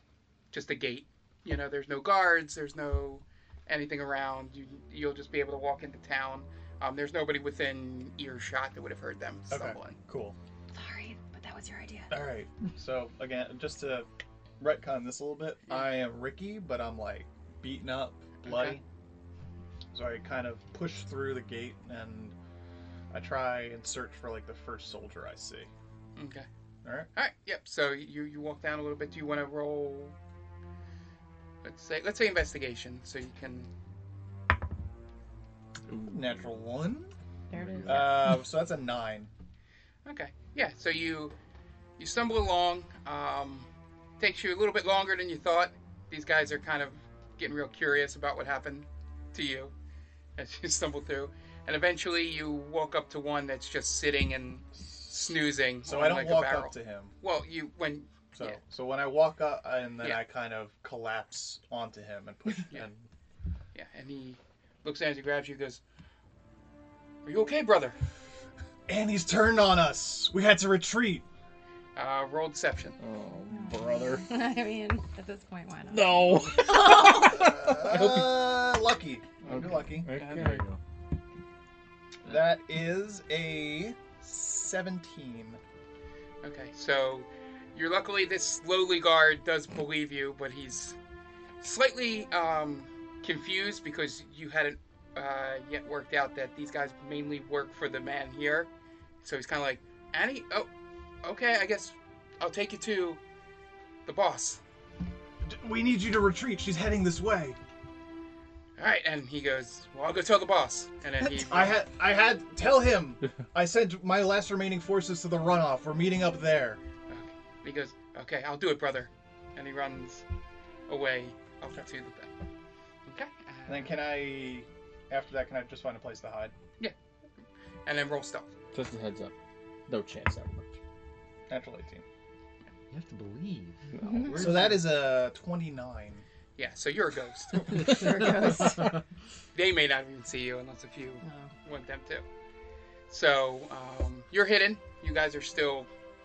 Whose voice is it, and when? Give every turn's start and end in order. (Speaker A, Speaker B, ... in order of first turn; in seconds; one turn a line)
Speaker A: 0.5-10.0
Speaker B: 9.5-10.4
Speaker C: 10.7-12.1
Speaker B: 12.1-14.1
Speaker B: 14.6-18.8
Speaker A: 18.4-18.8
Speaker B: 19.9-22.4
Speaker B: 23.1-25.7
Speaker A: 26.2-26.5
Speaker B: 26.8-27.1
Speaker A: 27.1-30.2
Speaker A: 31.6-33.7
Speaker D: 35.9-36.4
Speaker B: 36.1-37.1
Speaker C: 37.5-38.2
Speaker D: 37.5-38.3
Speaker B: 37.9-39.3
Speaker A: 40.0-41.4
Speaker A: 42.0-43.7
Speaker A: 44.2-49.7
Speaker A: 50.4-58.6
Speaker B: 54.8-57.2
Speaker B: 58.3-63.0
Speaker A: 60.0-60.3
Speaker A: 63.7-65.8
Speaker A: 67.2-68.0
Speaker B: 68.9-71.3
Speaker A: 72.0-73.0
Speaker E: 73.0-74.3
Speaker C: 73.5-77.5
Speaker E: 75.9-78.6
Speaker B: 77.2-80.1
Speaker D: 79.5-80.8
Speaker A: 80.1-80.6
Speaker E: 80.2-80.6
Speaker B: 82.3-85.6
Speaker A: 86.4-91.0
Speaker A: 91.6-98.7
Speaker A: 99.2-100.7
Speaker A: 101.2-103.2
Speaker A: 104.1-104.6
Speaker B: 105.4-107.6
Speaker A: 108.8-111.8
Speaker B: 111.2-116.8
Speaker A: 117.1-120.2
Speaker A: 120.9-122.3
Speaker A: 123.1-124.0
Speaker B: 123.7-126.5
Speaker A: 127.9-128.5
Speaker E: 128.7-129.3
Speaker E: 129.9-130.8
Speaker B: 131.5-132.0
Speaker D: 132.9-134.9
Speaker E: 133.9-134.7
Speaker C: 134.1-134.3
Speaker B: 134.4-136.2
Speaker A: 136.6-138.1
Speaker D: 137.7-139.0
Speaker C: 137.7-139.0
Speaker A: 139.5-142.2
Speaker C: 141.2-141.5
Speaker A: 143.1-145.9